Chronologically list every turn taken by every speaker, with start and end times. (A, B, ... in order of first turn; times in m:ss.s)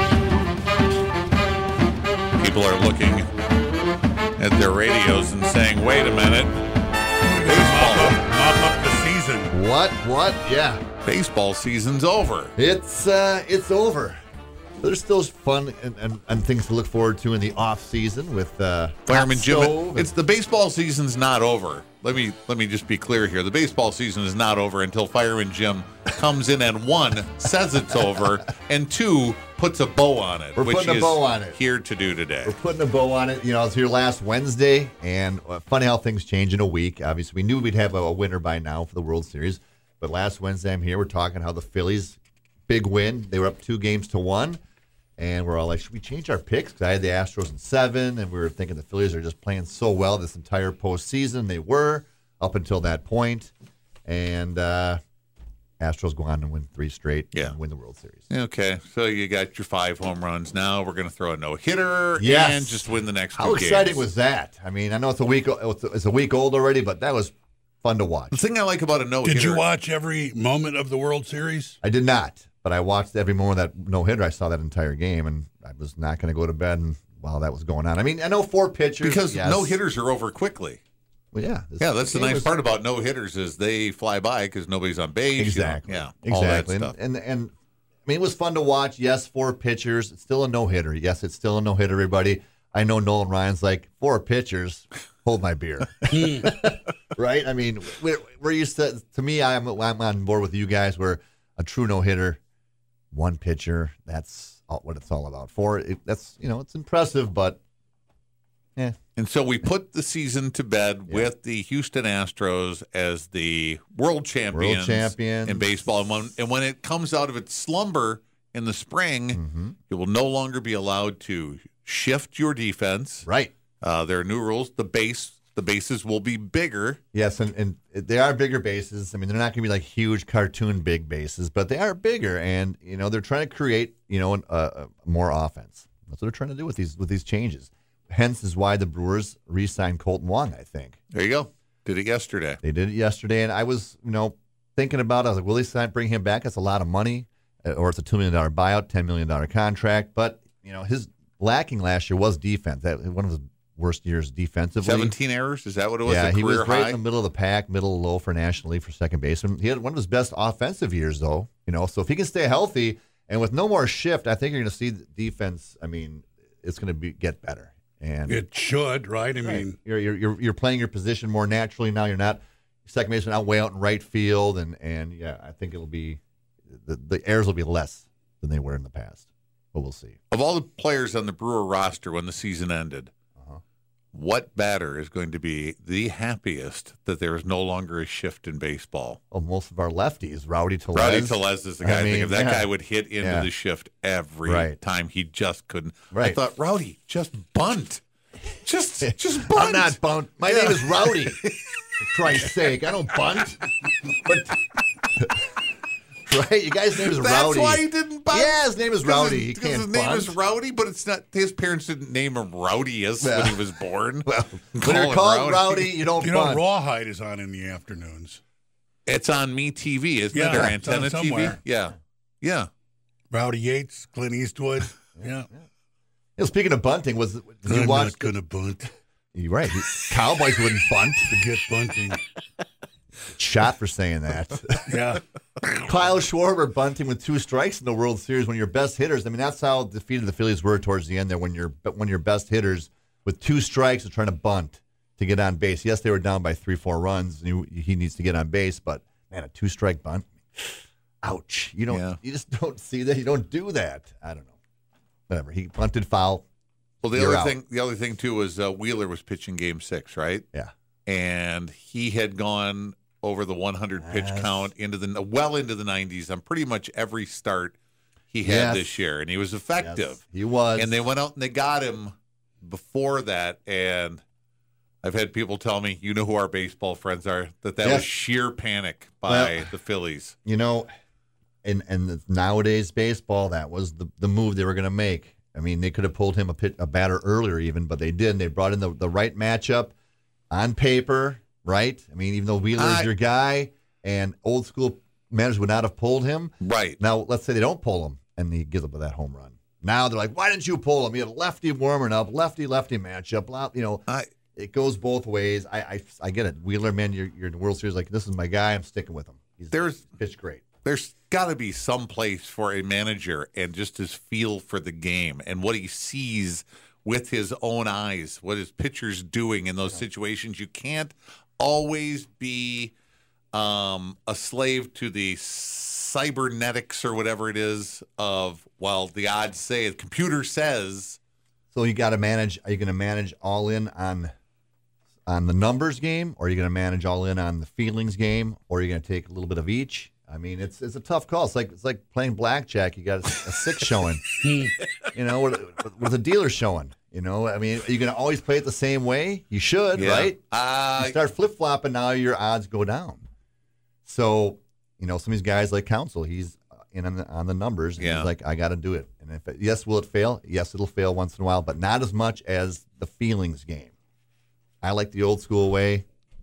0:02.4-0:03.3 A
0:04.4-0:06.6 A
0:07.2-0:09.5 B
0:07.5-0:08.2 A
0:09.5-0:10.8 C
0:11.0-0:12.5 A
0:12.6-0:14.2 C
0:14.8-0:20.1 C
0:19.1-0:32.5 A
0:30.6-0:31.6 C
0:32.4-0:44.6 C
0:45.2-0:53.5 C
0:54.1-0:55.0 C
0:55.8-0:58.3 C
0:58.3-1:04.0 A
1:02.2-1:08.4 C
1:08.3-1:09.6 A
1:09.2-1:11.8 B
1:11.8-1:19.8 C
1:19.0-1:20.8 A
1:21.3-1:22.5 C
1:21.8-1:26.9 A
1:25.4-1:27.5 C
1:28.1-1:42.4 C
1:36.2-1:36.5 B
1:43.1-1:47.6 C
1:49.2-2:03.3 A
1:54.5-1:55.7 C
1:59.3-1:59.8 C
2:03.2-2:03.5 C
2:03.8-2:07.0 A
2:07.1-2:21.0 C
2:21.1-2:22.6 A
2:22.6-2:35.2 C
2:34.8-2:37.0 A
2:36.0-2:48.4 C
2:48.3-2:49.8 B
2:49.4-3:00.2 C
3:00.3-3:03.1 A
3:03.4-3:03.6 C
3:04.1-3:09.2 A
3:09.3-3:13.5 C
3:11.0-3:18.0 A
3:14.4-3:14.8 C
3:16.1-3:16.4 C
3:18.6-3:21.8 A
3:19.0-3:21.4 C
3:22.0-3:23.6 C
3:24.2-3:24.6 C
3:25.2-3:25.4 C
3:26.3-3:30.4 C
3:27.0-3:36.0 A
3:33.2-3:36.6 C
3:36.2-3:38.4 B
3:39.1-3:42.7 A
3:40.3-3:41.6 B
3:43.3-3:45.5 B
3:45.2-3:45.6 C
3:46.4-3:48.3 C
3:47.7-3:48.9 B
3:49.3-3:51.3 C
3:51.3-3:52.2 B
3:53.3-3:54.9 C
3:54.9-3:55.8 B
3:55.8-4:14.6 C
4:11.9-4:12.2 A
4:15.3-4:16.5 C
4:17.0-4:20.4 A
4:17.1-4:17.6 C
4:21.1-4:27.8 A
4:24.0-4:24.7 C
4:28.3-4:30.2 A
4:28.4-4:29.0 C
4:29.8-4:31.0 C
4:30.8-4:34.2 A
4:35.0-4:40.3 A
4:37.8-4:38.1 C
4:39.2-4:39.7 C
4:40.4-4:40.9 C
4:41.6-4:49.9 C
4:50.5-5:10.6 C
4:52.8-4:53.1 A
4:56.6-4:57.0 A
5:09.7-5:10.0 A
5:10.8-5:22.9 A
5:23.5-5:31.2 A
5:31.7-5:34.3 C
5:35.3-5:44.3 C
5:44.5-5:44.7 B
5:45.1-5:50.4 C
5:49.9-5:51.1 A
5:51.0-5:53.2 C
5:54.0-6:03.9 C
5:58.0-5:58.3 A
6:04.8-6:06.1 C